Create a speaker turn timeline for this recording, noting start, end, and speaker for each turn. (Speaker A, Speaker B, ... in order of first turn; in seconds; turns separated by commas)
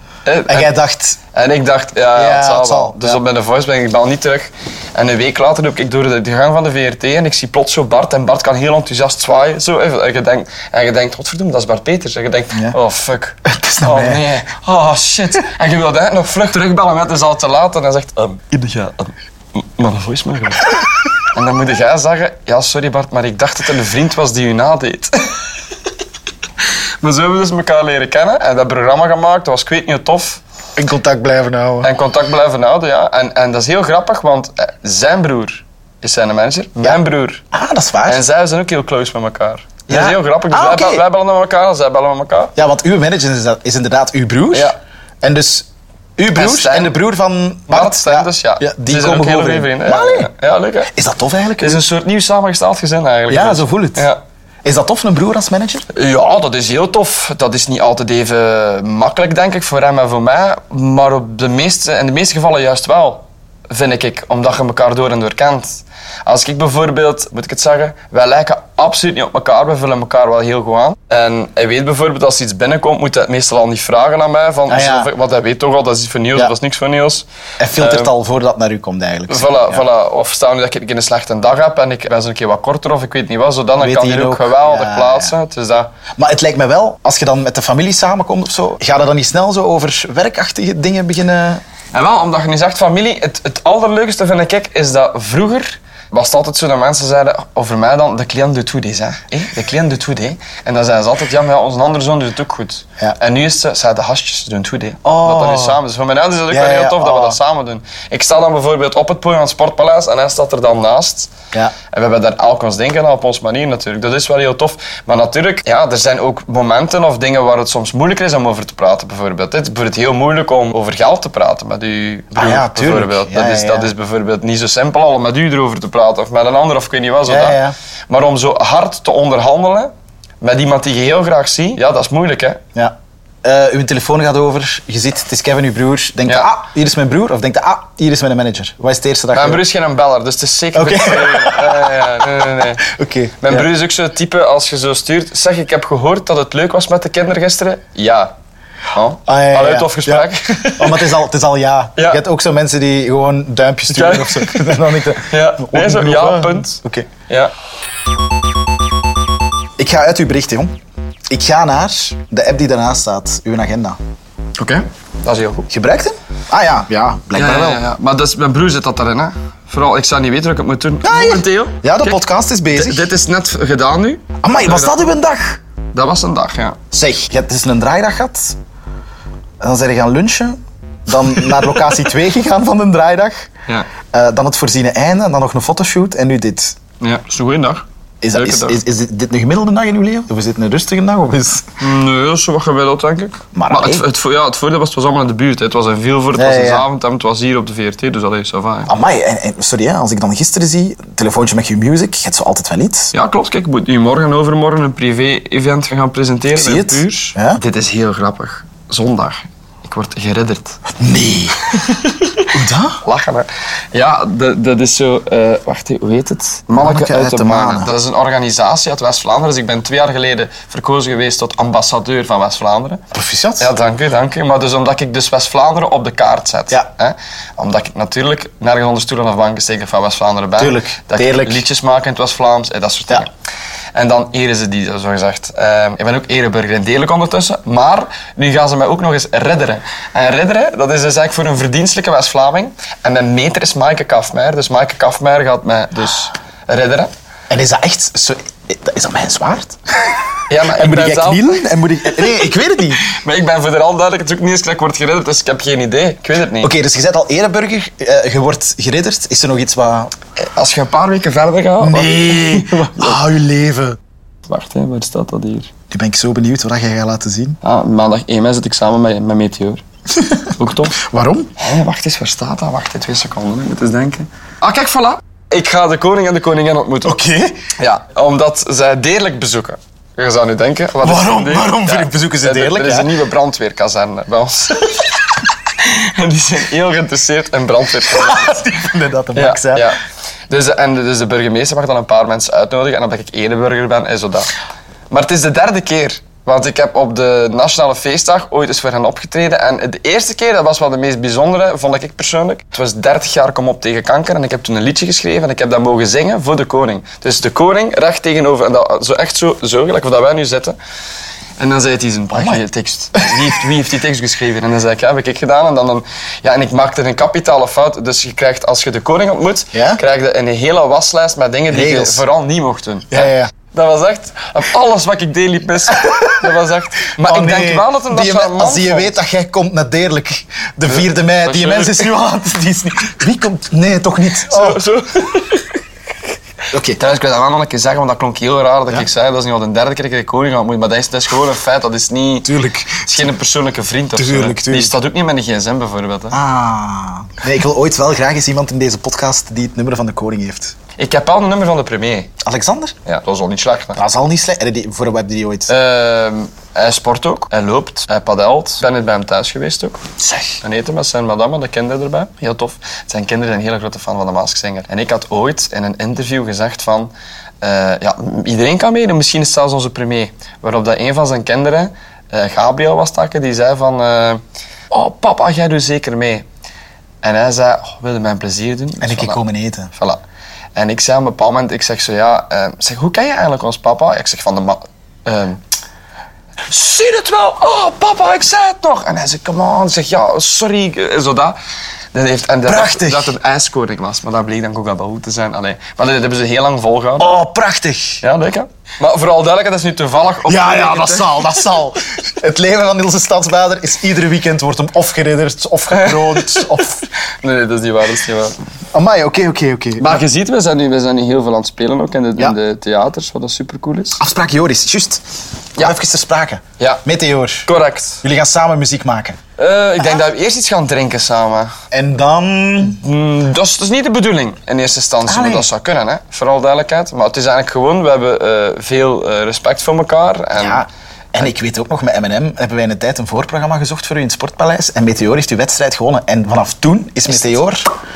Speaker A: 0.2-0.7, Speaker B: 0.5-1.2, Speaker A: 1.3-20.7, Speaker B: 2.1-3.2, Speaker B: 13.4-14.2, Speaker A: 21.2-25.5, Speaker A: 27.0-30.4, Speaker B: 30.8-31.9, Speaker A: 31.8-37.4, Speaker B: 37.5-38.2, Speaker A: 38.1-42.5, Speaker B: 39.9-41.0, Speaker B: 42.6-50.3, Speaker A: 46.3-46.9, Speaker A: 47.7-50.9, Speaker B: 50.9-51.8, Speaker A: 51.6-54.2, Speaker B: 53.3-54.1, Speaker B: 54.6-55.9, Speaker A: 55.9-77.2, Speaker B: 74.7-75.1, Speaker B: 77.6-79.8, Speaker A: 77.8-78.1, Speaker A: 79.3-85.9, Speaker B: 83.8-85.3, Speaker B: 86.2-91.6, Speaker A: 91.9-111.3, Speaker B: 105.0-105.8, Speaker B: 106.5-107.4, Speaker A: 111.9-132.6, Speaker B: 122.3-123.9, Speaker B: 127.3-127.8, Speaker B: 132.8-139.6, Speaker A: 139.3-142.8, Speaker B: 140.7-143.7, Speaker A: 143.4-148.4, Speaker A: 148.9-151.1, Speaker B: 149.2-157.1, Speaker A: 152.0-152.2, Speaker A: 153.9-157.5, Speaker B: 159.8-160.7, Speaker B: 161.3-164.0, Speaker A: 164.6-165.7, Speaker B: 165.7-167.8, Speaker A: 167.3-172.2, Speaker B: 171.0-173.1, Speaker A: 172.7-175.1, Speaker B: 174.4-175.6, Speaker A: 175.9-176.8, Speaker B: 176.9-178.6, Speaker B: 179.6-183.5, Speaker B: 184.1-186.8, Speaker A: 187.0-188.8, Speaker B: 188.2-191.8, Speaker A: 191.8-198.9, Speaker B: 193.5-194.1, Speaker B: 196.3-196.9, Speaker B: 198.9-203.1, Speaker A: 203.1-210.8, Speaker B: 206.5-207.6, Speaker B: 210.9-211.8, Speaker A: 211.8-212.5, Speaker B: 212.5-213.0, Speaker A: 213.0-223.0, Speaker B: 216.8-217.9, Speaker B: 223.1-223.7, Speaker A: 223.6-233.3, Speaker B: 230.6-231.6, Speaker A: 233.9-247.1, Speaker B: 247.5-250.1, Speaker A: 250.5-251.6, Speaker B: 250.7-253.1, Speaker A: 253.0-256.7, Speaker B: 256.6-260.1, Speaker A: 260.4-263.2, Speaker B: 261.8-264.0, Speaker A: 264.5-265.7, Speaker B: 265.9-267.6, Speaker A: 267.6-269.8, Speaker B: 270.2-271.5, Speaker A: 270.5-271.0, Speaker A: 271.6-277.2, Speaker B: 277.0-277.7, Speaker A: 277.8-288.7, Speaker B: 281.0-283.1, Speaker B: 288.1-289.9, Speaker A: 289.4-290.0, Speaker A: 290.5-294.5, Speaker A: 295.1-310.8, Speaker A: 311.6-329.2, Speaker B: 312.3-312.6, Speaker B: 313.1-313.5, Speaker B: 319.7-320.0, Speaker B: 321.7-322.2, Speaker B: 323.1-323.5, Speaker B: 326.0-326.4, Speaker B: 327.1-334.8, Speaker A: 330.9-332.1, Speaker A: 334.4-335.8, Speaker B: 336.7-337.0, Speaker A: 337.0-342.5, Speaker B: 342.4-343.3, Speaker A: 343.1-346.4, Speaker B: 344.1-344.9, Speaker B: 346.3-350.8, Speaker A: 351.0-352.3, Speaker B: 352.4-353.0, Speaker A: 353.0-354.0, Speaker B: 353.9-355.7, Speaker A: 355.7-360.0, Speaker B: 360.2-360.6, Speaker A: 360.6-376.5, Speaker A: 377.2-379.4, Speaker B: 379.0-379.9, Speaker A: 379.9-380.2, Speaker A: 380.8-385.6, Speaker A: 386.7-391.6, Speaker A: 392.1-397.3, Speaker B: 392.6-393.3, Speaker B: 397.2-398.2, Speaker A: 398.2-401.8, Speaker B: 400.5-407.1, Speaker A: 405.9-406.9, Speaker A: 407.4-408.6, Speaker B: 408.9-410.2, Speaker A: 410.0-414.2, Speaker B: 414.2-415.2, Speaker B: 415.8-417.7, Speaker A: 417.7-418.2, Speaker B: 418.2-419.4, Speaker A: 419.6-421.7, Speaker B: 421.9-423.0, Speaker A: 422.8-430.9, Speaker B: 425.2-425.7, Speaker B: 430.6-437.9